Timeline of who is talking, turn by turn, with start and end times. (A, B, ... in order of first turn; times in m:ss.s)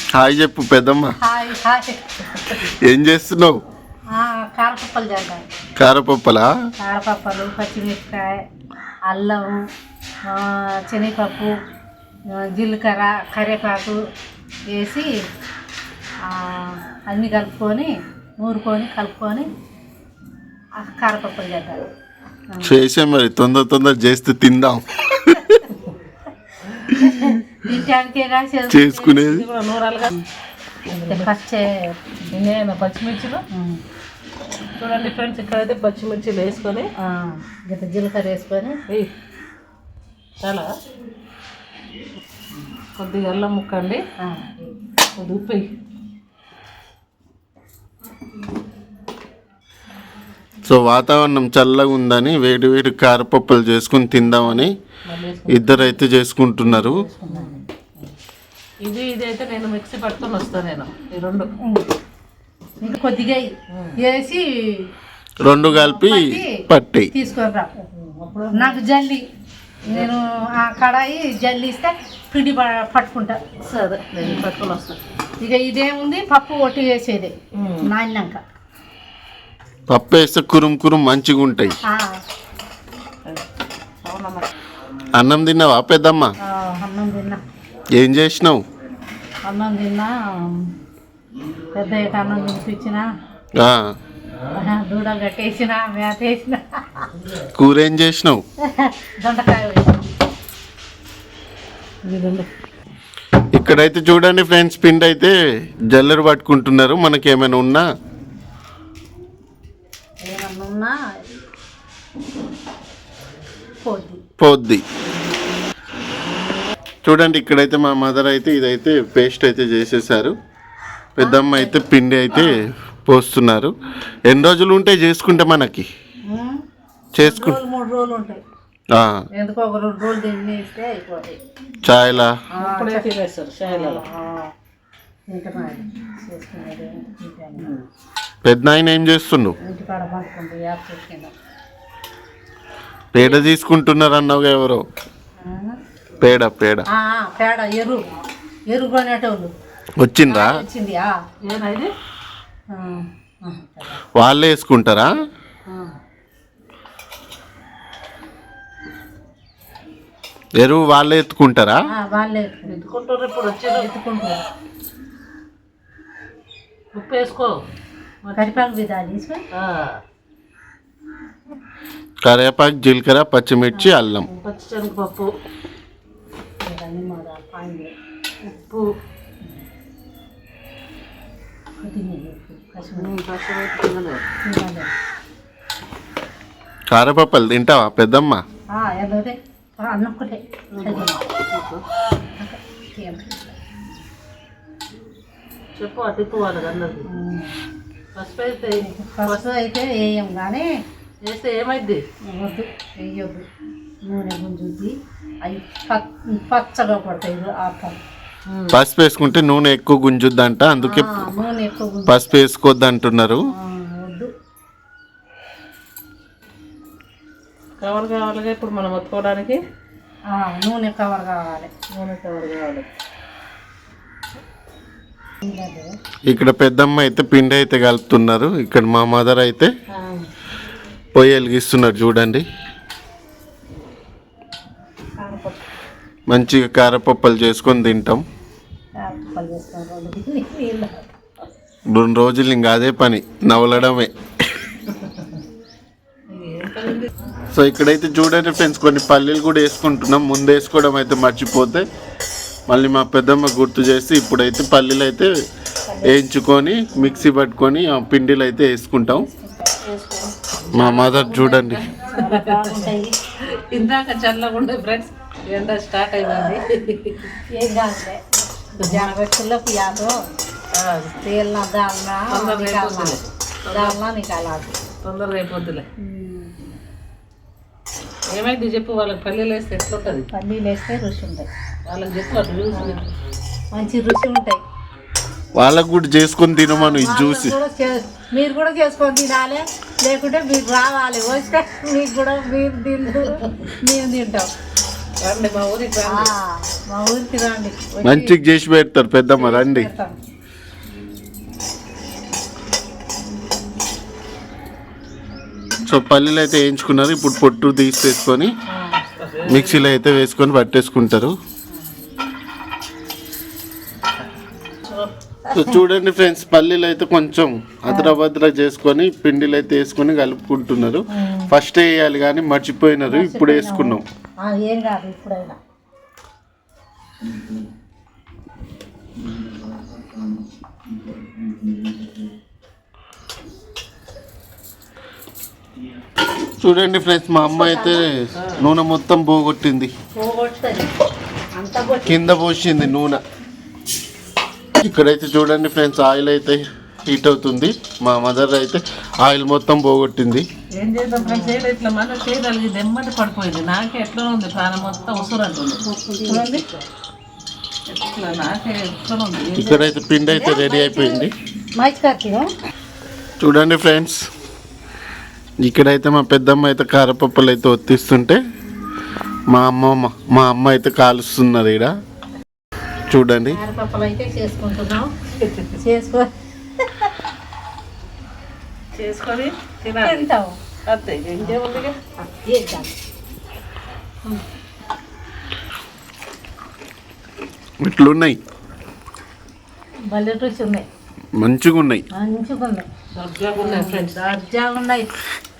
0:00.1-0:01.1 A
0:01.2-0:02.0 B
0:02.7-0:03.5 A
0:04.1-0:05.4 B
0:05.8-0:06.5 A
0:06.8-0:08.4 B
0:09.1-0:09.6 B
0:10.3-0:11.5 B
0:12.3-0:14.0 B
0:14.7-0:15.0 B
0:16.2-0:19.5 B
0:20.8-0:21.8 B
0:22.5-0:22.7 B
0:22.6-0:25.6 A
0:26.9-0:27.4 A
0:27.0-0:29.2 B
0:28.7-0:29.4 A
0:29.3-0:30.2 C
0:30.9-0:31.3 C
0:31.0-0:31.9 B
0:32.3-0:33.4 C
0:33.5-0:33.8 B
0:34.8-0:36.9 C
0:37.0-0:38.8 B
0:40.4-0:40.7 C
0:42.9-0:44.0 C
0:44.2-0:44.7 B
0:45.2-0:45.7 C
0:50.7-0:54.7 A
0:55.1-0:56.0 C
0:55.5-0:57.0 A
0:56.6-0:57.6 C
0:58.8-1:01.5 C
1:01.6-1:01.9 B
1:02.8-1:04.4 B
1:03.7-1:04.0 C
1:05.4-1:07.1 A
1:05.7-1:06.5 B
1:07.1-1:07.7 B
1:07.8-1:08.8 C
1:08.5-1:09.2 B
1:09.9-1:13.4 B
1:09.9-1:10.1 C
1:13.6-1:15.0 C
1:14.2-1:14.5 B
1:15.4-1:17.3 B
1:17.5-1:17.9 C
1:17.8-1:18.4 B
1:19.9-1:21.7 A
1:24.0-1:24.5 C
1:25.2-1:26.3 A
1:26.4-1:27.4 B
1:28.0-1:28.6 A
1:29.4-1:30.6 B
1:31.7-1:33.0 B
1:33.6-1:33.8 A
1:34.5-1:37.1 B
1:37.5-1:38.4 A
1:38.7-1:40.0 B
1:42.0-1:42.5 C
1:43.6-1:45.3 A
1:45.9-1:47.8 A
1:50.2-1:50.9 B
1:53.8-1:54.2 B
1:54.4-1:54.8 A
1:57.0-2:00.3 A
2:01.2-2:03.7 A
2:01.2-2:01.8 B
2:04.3-2:05.9 A
2:06.3-2:06.6 B
2:07.1-2:07.6 A
2:07.2-2:08.4 B
2:08.9-2:09.2 A
2:09.4-2:11.4 B
2:11.8-2:12.3 A
2:12.6-2:13.0 B
2:12.6-2:14.0 C
2:13.7-2:14.5 B
2:15.3-2:17.7 B
2:17.6-2:17.8 C
2:18.4-2:19.6 A
2:19.6-2:21.3 B
2:23.1-2:24.8 A
2:23.2-2:23.4 C
2:25.4-2:25.8 B
2:26.2-2:26.9 A
2:26.9-2:28.0 B
2:28.7-2:29.5 B
2:30.0-2:30.6 A
2:30.3-2:31.1 B
2:31.4-2:31.9 C
2:32.7-2:34.0 B
2:34.2-2:35.1 A
2:35.7-2:35.9 C
2:40.6-2:41.8 A
2:41.9-2:42.8 B
2:42.7-2:43.9 C
2:43.7-2:44.4 B
2:46.9-2:47.5 C
2:48.2-2:48.5 C
2:48.3-2:49.4 B
2:49.5-2:50.0 C
2:52.2-2:54.3 A
2:54.3-2:55.3 C
2:56.6-2:57.9 B
2:58.4-2:58.9 C
3:01.8-3:03.1 B
3:03.0-3:04.2 C
3:04.4-3:04.9 B
3:06.9-3:08.4 A
3:08.7-3:11.2 B
3:10.8-3:11.8 C
3:12.4-3:13.6 B
3:15.8-3:17.1 C
3:17.1-3:17.5 B
3:18.1-3:19.4 C
3:18.8-3:20.7 B
3:21.2-3:22.0 C
3:22.3-3:23.4 B
3:24.0-3:24.9 B
3:25.4-3:28.0 B
3:28.5-3:28.8 C
3:28.7-3:31.3 A
3:30.8-3:32.3 B
3:32.1-3:33.4 A
3:33.5-3:34.3 B
3:37.8-3:39.6 C
3:40.3-3:41.7 B
3:41.9-3:42.8 C
3:45.4-3:45.9 B
3:46.3-3:49.7 A
3:49.9-3:50.2 C
3:51.1-3:52.4 A
3:55.2-3:55.5 C
3:56.3-3:58.2 A
3:59.0-4:01.0 B
4:01.9-4:04.1 A
4:04.9-4:05.4 C
4:06.3-4:07.1 C
4:07.5-4:11.8 A
4:12.7-4:15.3 A
4:15.9-4:16.1 B
4:16.0-4:19.3 A
4:19.3-4:19.8 B
4:19.8-4:22.8 C
4:20.7-4:21.8 A
4:22.1-4:23.2 B
4:23.4-4:27.3 C
4:27.5-4:30.1 B
4:28.8-4:29.1 C
4:30.7-4:31.1 C
4:31.2-4:33.2 B
4:32.3-4:34.0 C
4:33.7-4:34.7 B
4:35.0-4:35.8 C
4:36.0-4:36.5 B
4:38.3-4:40.3 C
4:40.3-4:41.5 B
4:41.8-4:43.0 C
4:42.7-4:43.0 B
4:43.7-4:44.6 B
4:45.6-4:47.6 A
4:46.6-4:54.5 B
4:55.2-4:56.3 C
4:56.0-4:58.3 B
4:58.0-4:59.9 A
4:59.3-5:00.1 B
5:05.9-5:08.5 A
5:08.7-5:09.9 C
5:09.5-5:11.3 A
5:15.4-5:15.8 B
5:15.5-5:24.0 A
5:17.9-5:18.2 B
5:23.1-5:25.6 B
5:36.6-5:39.9 A
5:37.4-5:38.1 B
5:38.4-5:38.7 C
5:40.2-5:40.9 B
5:41.6-5:42.2 B
5:42.0-5:43.2 A
5:44.8-5:50.4 A
5:50.8-5:55.8 C
5:51.2-5:51.6 B
5:55.8-5:56.6 B
5:57.9-5:59.9 C
5:59.6-6:01.3 A
6:00.3-6:01.2 B
6:01.8-6:02.5 B
6:03.4-6:04.2 A
6:05.6-6:08.4 A
6:09.5-6:11.9 A
6:13.1-6:13.6 A
6:13.5-6:15.1 B
6:15.4-6:15.7 C
6:15.8-6:16.3 B
6:16.8-6:17.1 B
6:18.9-6:20.2 C
6:20.0-6:20.6 B
6:20.9-6:21.9 C
6:22.2-6:22.9 B
6:27.8-6:28.4 A
6:30.1-6:30.8 B
6:31.4-6:32.0 A
6:32.1-6:32.8 B
6:33.2-6:34.2 C
6:33.6-6:35.1 B